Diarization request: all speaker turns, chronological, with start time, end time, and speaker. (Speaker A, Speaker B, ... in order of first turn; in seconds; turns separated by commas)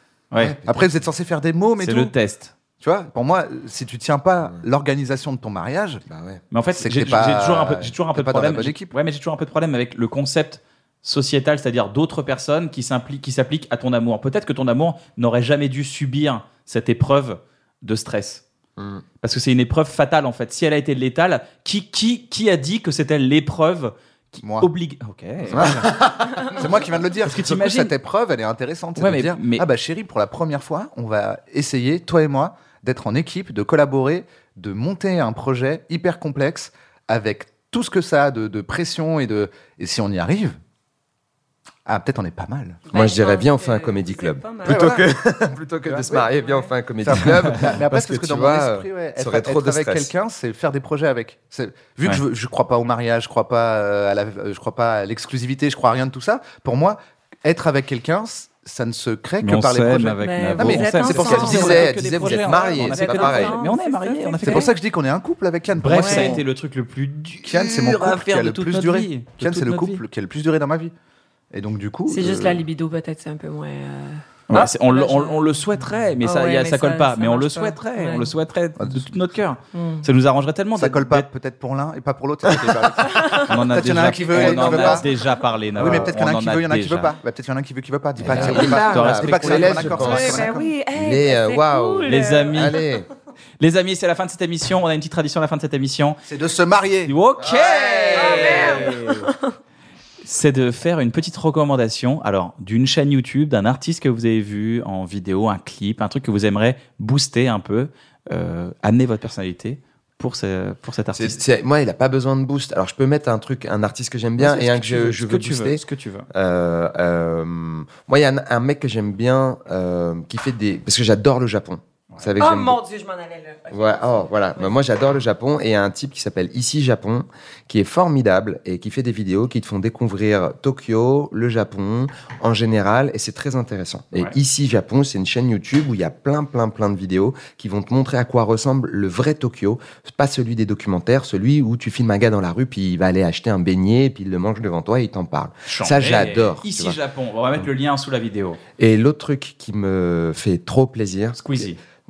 Speaker A: 0.3-0.6, Speaker B: 0.4-0.9, Speaker C: 0.7-2.1, Speaker A: 1.8-2.5, Speaker C: 2.8-6.0, Speaker B: 6.0-6.4, Speaker A: 6.5-18.4, Speaker C: 6.8-8.9, Speaker B: 18.8-19.0, Speaker A: 19.2-25.9, Speaker C: 24.4-24.7, Speaker B: 25.5-26.7, Speaker C: 26.5-40.6, Speaker A: 27.2-27.9, Speaker A: 29.0-29.6, Speaker C: 41.9-42.8, Speaker D: 42.9-44.9, Speaker B: 42.9-50.1, Speaker C: 44.7-45.0, Speaker C: 45.9-46.3, Speaker D: 46.4-46.7, Speaker C: 47.0-61.9, Speaker A: 59.4-64.7, Speaker D: 60.2-61.8, Speaker B: 61.1-63.5, Speaker D: 62.8-64.7, Speaker C: 64.4-66.4, Speaker A: 65.8-70.0, Speaker D: 66.0-66.4, Speaker C: 67.4-70.9, Speaker C: 71.5-72.6, Speaker D: 72.1-75.5, Speaker A: 74.5-81.2, Speaker D: 76.2-78.3, Speaker C: 78.8-79.2, Speaker D: 79.7-80.0, Speaker C: 80.7-85.0, Speaker D: 83.1-83.5, Speaker A: 83.4-87.1, Speaker B: 84.0-85.0, Speaker C: 85.7-90.7, Speaker B: 85.8-86.1, Speaker B: 88.2-93.1, Speaker A: 88.2-90.2, Speaker D: 90.0-92.8, Speaker A: 92.0-92.8, Speaker A: 93.6-96.2, Speaker C: 96.3-97.1, Speaker A: 97.0-99.3, Speaker B: 97.4-98.9, Speaker D: 98.2-99.5, Speaker A: 100.2-111.4, Speaker B: 111.1-122.8, Speaker A: 114.4-116.3, Speaker D: 122.4-124.7, Speaker B: 123.7-147.0, Speaker A: 145.7-148.6, Speaker B: 148.8-151.7, Speaker A: 151.3-151.8